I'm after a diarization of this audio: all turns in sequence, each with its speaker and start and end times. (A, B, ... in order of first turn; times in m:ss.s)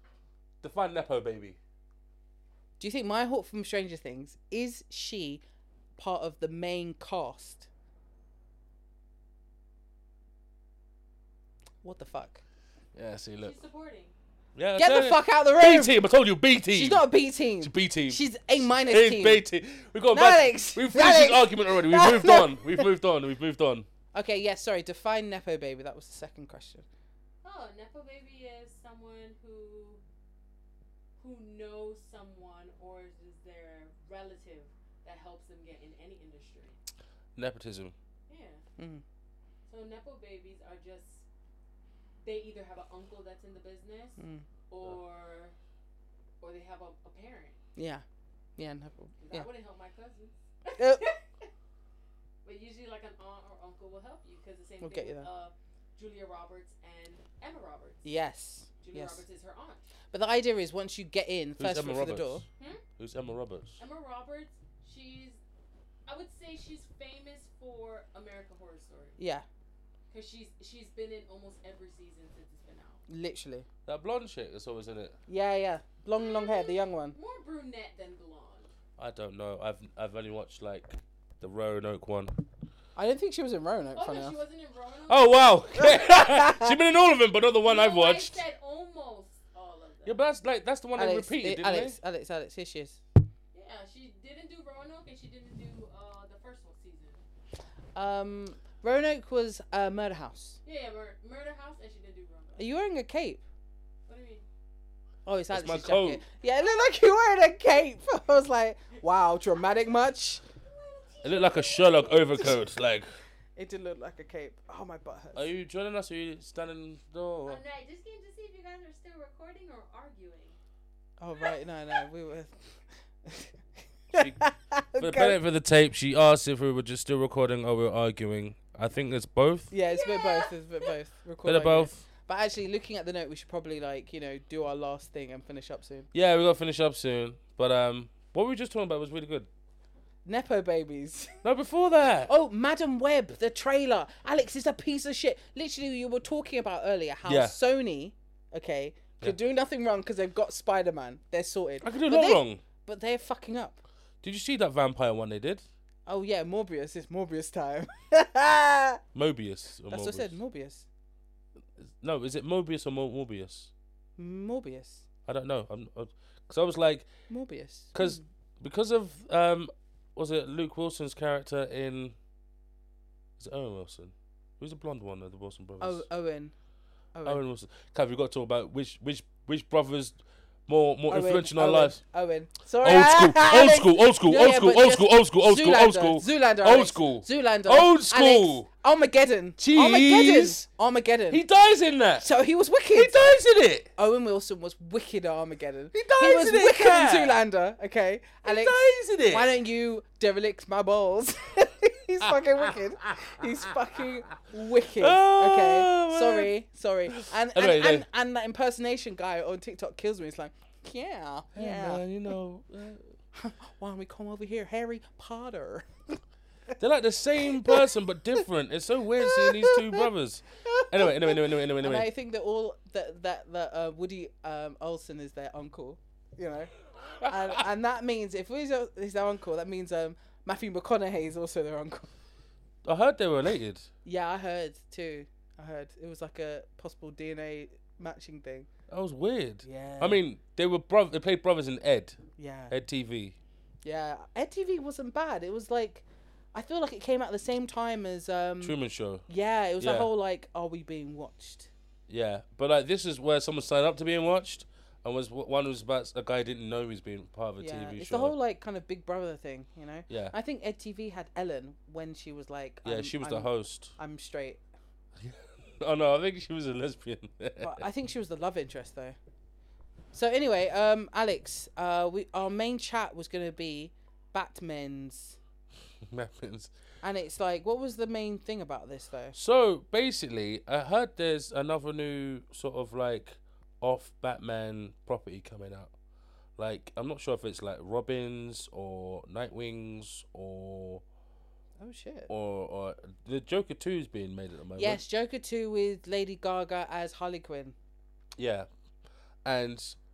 0:00.6-0:01.6 A
0:02.8-0:05.4 B
0:06.0-0:07.7 B
0:11.8-0:12.4 B
0:13.0-0:13.6 A
0:13.4-0:14.1 C
0:14.6-0:17.1 A
0:14.8-0:16.0 B
0:16.7-0:19.4 B
0:17.6-0:23.9 A
0:20.1-0:22.9 B
0:24.1-0:26.9 B
0:27.4-0:30.0 C
0:31.2-0:36.8 C
0:37.4-0:37.9 A
0:38.3-0:38.6 C
0:38.8-0:39.0 B
0:39.7-0:41.2 C
0:42.2-0:45.5 C
0:44.2-0:44.4 B
0:46.4-0:47.6 C
0:47.8-0:48.0 B
0:48.6-0:49.5 B
0:49.2-0:51.5 C
0:50.8-0:51.1 B
0:52.4-0:58.1 C
0:54.8-0:55.3 B
0:58.0-0:59.2 B
0:58.8-0:59.9 C
1:00.1-1:02.4 B
1:01.6-1:02.4 A
1:02.6-1:02.8 C
1:03.0-1:03.8 A
1:03.8-1:05.4 C
1:06.1-1:09.2 C
1:09.2-1:09.5 B
1:10.1-1:13.0 C
1:13.1-1:13.7 B
1:13.9-1:15.2 A
1:15.3-1:17.2 B
1:16.1-1:18.7 C
1:19.0-1:22.4 A
1:23.0-1:24.4 B
1:23.9-1:25.6 C
1:25.1-1:28.4 A
1:25.8-1:26.8 B
1:27.6-1:30.2 C
1:30.0-1:32.0 A
1:31.0-1:33.0 B
1:33.5-1:37.2 C
1:38.0-1:40.6 B
1:40.6-1:42.6 C
1:42.6-1:43.4 B
1:44.1-1:44.4 C
1:45.3-1:50.4 B
1:45.5-1:46.2 A
1:50.5-1:52.6 C
1:51.2-1:53.1 A
1:53.6-1:55.5 B
1:55.4-1:57.6 A
1:57.4-2:00.6 C
2:01.2-2:03.6 B
2:04.1-2:04.4 A
2:04.1-2:05.4 B
2:05.0-2:09.7 A
2:09.7-2:16.1 B
2:09.9-2:10.9 C
2:11.4-2:12.0 A
2:16.1-2:19.5 A
2:20.2-2:21.4 B
2:21.4-2:22.3 A
2:22.3-2:33.8 B
2:27.3-2:27.6 A
2:31.8-2:32.6 A
2:34.2-2:35.6 A
2:36.1-2:39.0 B
2:39.2-2:40.4 A
2:39.9-2:40.9 B
2:41.8-2:43.7 A
2:44.2-2:45.1 B
2:45.3-2:47.1 A
2:47.3-2:48.2 B
2:47.9-2:52.2 A
2:53.4-2:56.0 A
2:55.8-2:56.5 B
2:57.1-2:57.4 B
2:57.2-3:02.0 A
3:01.1-3:11.4 B
3:02.8-3:08.7 A
3:09.6-3:10.6 A
3:11.3-3:12.3 A
3:12.2-3:13.4 B
3:12.9-3:13.9 A
3:14.0-3:32.0 B
3:15.9-3:17.4 A
3:18.4-3:19.5 A
3:22.6-3:23.7 A
3:25.0-3:26.5 A
3:27.1-3:28.0 A
3:31.6-3:33.1 A
3:33.3-3:36.2 B
3:36.8-3:42.1 A
3:37.5-3:37.9 B
3:39.2-3:40.1 B
3:40.6-3:52.1 B
3:52.8-3:53.9 A
3:54.0-3:58.7 B
3:58.9-4:02.2 A
3:59.6-4:00.2 B
4:02.4-4:02.7 B
4:02.7-4:03.4 A
4:03.8-4:11.7 B
4:08.6-4:09.2 A
4:09.8-4:10.1 A
4:12.1-4:18.4 A
4:17.6-4:24.6 B
4:20.1-4:20.4 A
4:22.8-4:24.0 A
4:25.2-4:27.8 A
4:27.6-4:29.2 B
4:30.1-4:35.4 B
4:36.1-4:36.7 A
4:37.0-4:39.4 B
4:39.3-4:45.9 A
4:46.6-4:51.0 A
4:51.8-4:52.3 B
4:52.3-4:55.0 A
4:54.8-4:57.8 B
4:58.4-4:58.7 A
4:59.4-5:00.0 A